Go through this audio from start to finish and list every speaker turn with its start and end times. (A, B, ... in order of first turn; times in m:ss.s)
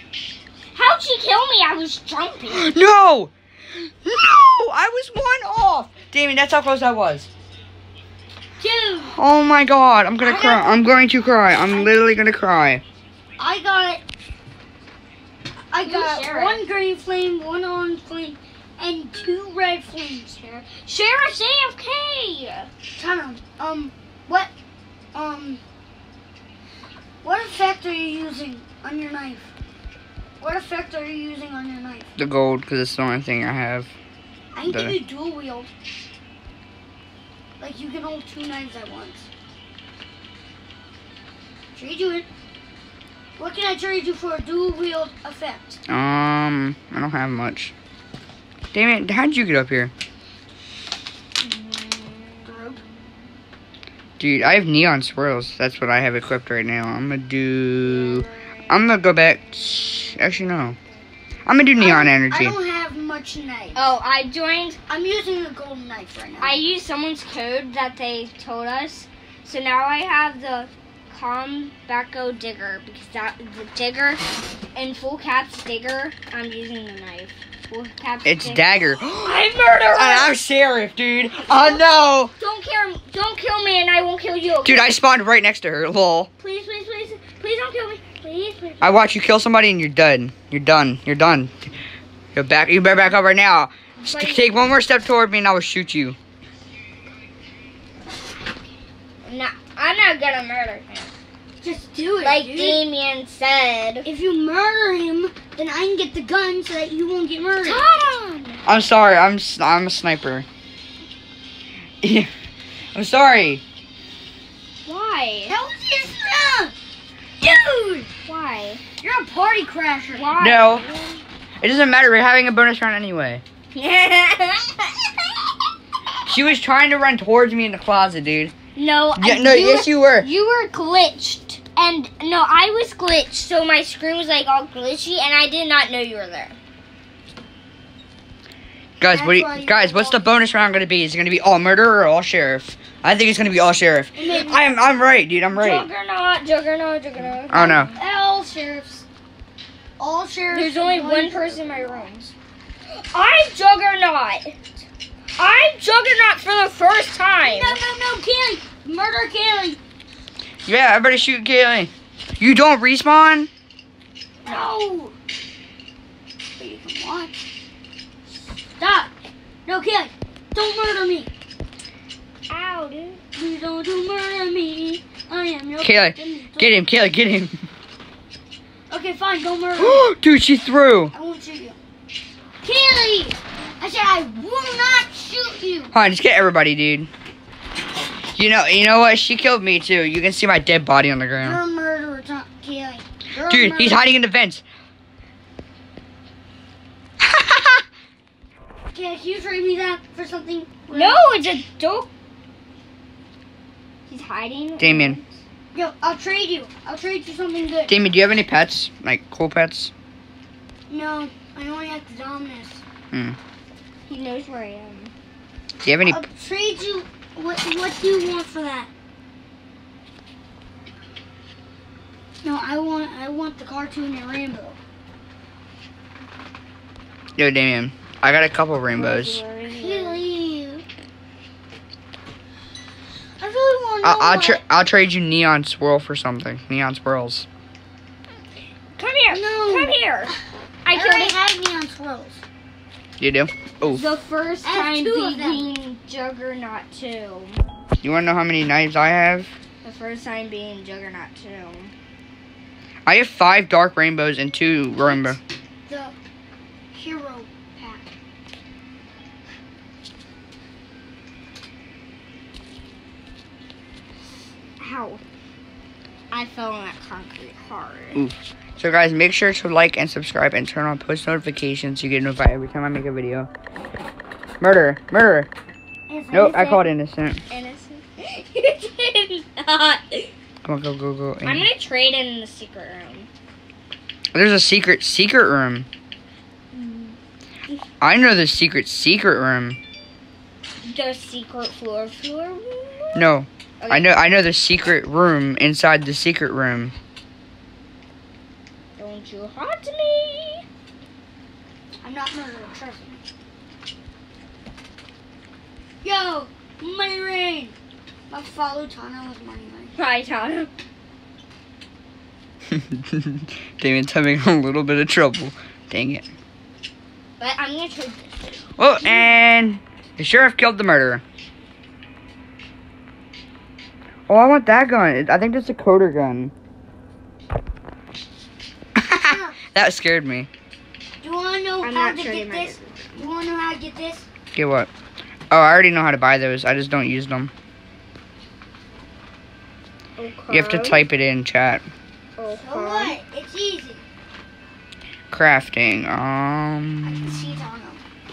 0:00.7-0:02.7 A
0:02.5-0:03.3 B
0:04.0-0:07.3 B
0:08.6-0:09.1 C
0:09.1-0:12.8 B
0:10.2-0:10.7 A
0:13.4-0:14.0 C
0:15.7-0:20.8 C
0:15.8-0:16.6 A
0:20.8-0:22.7 A
0:23.0-0:24.5 C
0:25.1-0:25.6 C
0:27.2-0:29.5 C
0:30.4-0:32.1 C
0:32.2-0:33.9 B
0:34.5-0:35.7 C
0:34.7-0:35.0 B
0:37.6-0:39.3 C
0:41.7-0:42.2 C
0:43.4-0:45.8 C
0:45.9-0:47.7 B
0:48.7-0:49.9 B
0:51.4-0:52.9 A
0:52.4-0:52.8 C
0:54.2-1:00.8 B
1:01.4-1:02.5 B
1:01.8-1:03.8 C
1:03.7-1:04.8 A
1:04.9-1:06.6 C
1:06.4-1:14.2 A
1:14.7-1:20.3 A
1:18.2-1:22.3 B
1:21.5-1:21.8 A
1:22.4-1:24.9 A
1:24.6-1:26.3 B
1:26.4-1:29.0 A
1:28.8-1:31.5 B
1:32.3-1:36.2 B
1:34.0-1:34.5 A
1:39.2-1:41.1 A
1:41.6-1:42.8 C
1:42.2-1:44.1 A
1:44.0-1:47.8 C
1:47.6-1:48.6 A
1:48.6-1:50.4 B
1:52.0-1:52.3 B
1:52.9-1:53.6 B
1:54.8-1:55.6 A
1:55.5-1:56.7 C
1:57.4-1:58.1 C
1:58.2-1:58.8 A
1:59.0-2:00.3 C
2:00.1-2:01.2 A
2:00.4-2:00.8 B
2:01.6-2:03.4 B
2:03.7-2:05.3 A
2:06.3-2:08.5 B
2:08.8-2:16.6 A
2:09.2-2:10.3 B
2:19.0-2:25.9 B
2:19.1-2:20.2 C
2:24.2-2:24.6 C
2:25.5-2:27.9 A
2:27.5-2:27.9 B
2:27.5-2:29.0 C
2:30.0-2:32.1 C
2:30.5-2:32.3 A
2:32.9-2:34.6 A
2:35.4-2:37.8 A
2:37.4-2:39.8 C
2:40.6-2:43.5 B
2:44.4-2:45.1 C
2:46.6-2:47.4 C
2:48.7-2:49.1 C
2:49.6-2:51.3 C
2:52.5-2:53.2 A
2:53.3-2:56.8 C
2:55.8-2:57.6 B
2:58.9-3:00.1 C
2:59.8-3:01.1 B
3:01.1-3:01.8 C
3:02.6-3:05.9 C
3:05.9-3:07.1 B
3:08.3-3:11.6 B
3:11.4-3:14.0 C
3:13.5-3:14.6 B
3:17.2-3:17.8 B
3:18.9-3:21.2 C
3:20.9-3:22.1 A
3:24.1-3:25.4 A
3:24.8-3:25.2 B
3:25.7-3:28.0 C
3:27.9-3:29.9 B
3:30.9-3:32.8 C
3:33.1-3:33.4 B
3:34.1-3:35.1 A
3:35.8-3:36.2 B
3:36.0-3:38.9 C
3:42.4-3:44.8 C
3:47.4-3:49.4 B
3:48.9-3:50.2 A
3:49.7-3:50.8 C
3:53.4-3:54.6 C
3:54.0-3:57.5 B
3:59.0-4:01.3 A
3:59.3-4:00.0 C
4:00.9-4:02.4 C
4:03.2-4:04.0 B
4:03.9-4:07.6 A
4:04.6-4:05.7 C
4:08.0-4:09.5 B
4:09.8-4:11.9 A
4:13.0-4:15.4 B
4:15.9-4:16.1 C
4:16.9-4:18.1 C
4:24.8-4:25.2 A
4:26.3-4:28.2 A
4:28.1-4:33.5 B
4:34.6-4:35.5 B
4:36.1-4:36.8 C
4:36.3-4:37.4 B
4:37.5-4:40.3 A
4:40.6-4:41.7 B
4:41.4-4:43.3 A
4:44.3-4:45.9 B
4:46.7-4:47.2 A
4:48.0-4:49.8 B
4:50.8-4:54.2 A
4:53.1-4:56.9 B
4:59.0-5:00.6 A
5:02.0-5:03.2 C
5:06.0-5:07.7 C
5:08.3-5:09.9 C
5:10.0-5:10.7 A
5:12.7-5:16.3 B
5:17.4-5:18.4 A
5:18.8-5:21.2 B
5:24.3-5:26.5 B
5:28.9-5:30.5 B
5:29.2-5:29.6 C
5:31.2-5:34.3 C
5:31.8-5:33.0 A
5:34.5-5:34.9 B
5:35.5-5:37.5 B
5:40.2-5:41.0 A
5:40.5-5:41.8 B
5:42.4-5:43.2 A
5:42.6-5:44.0 C
5:45.3-5:47.5 B
5:47.0-5:48.0 C